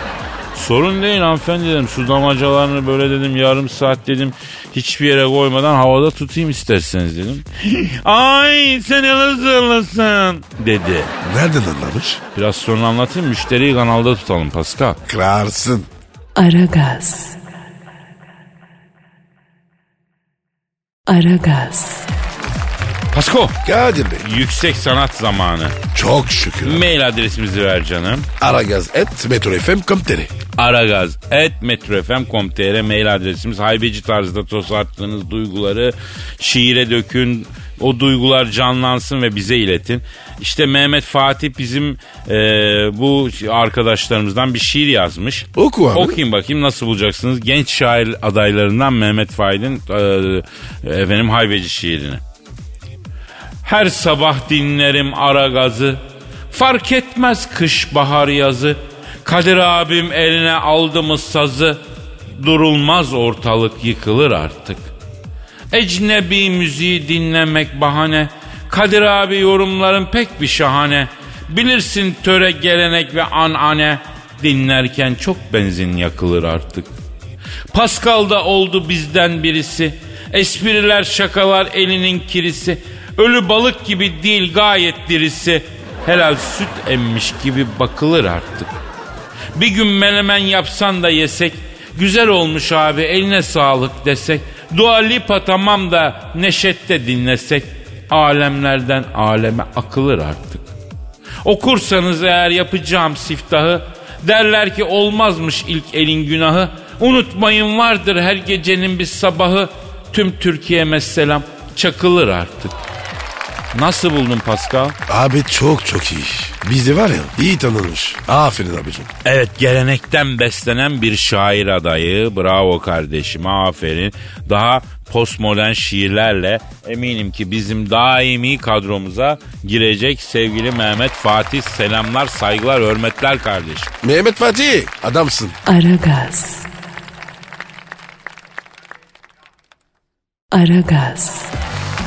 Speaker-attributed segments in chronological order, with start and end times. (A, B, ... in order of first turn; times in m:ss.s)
0:00.5-0:11.1 A
0:11.2-0:12.2 B
0:12.4-0:15.0 A
0:15.1-0:15.9 B
0:16.4-0:17.4 C
0:21.1-0:22.1 C
0:23.1-0:23.6 A
0:23.6-0:24.2 B
0:24.2-0:25.8 A
0:25.9-0:26.9 B
0:26.6-0:28.3 A
0:28.4-0:30.3 B
0:30.6-0:52.2 A
0:45.6-0:46.2 B
0:53.6-1:04.9 A
1:05.7-1:16.9 A
1:17.7-1:28.8 A
1:29.6-1:40.7 A
1:41.4-1:52.8 A
1:53.7-1:55.0 A
1:55.1-1:59.1 B
1:59.2-2:13.9 A
2:14.0-2:15.6 B
2:15.7-2:16.7 C
2:20.5-2:21.5 C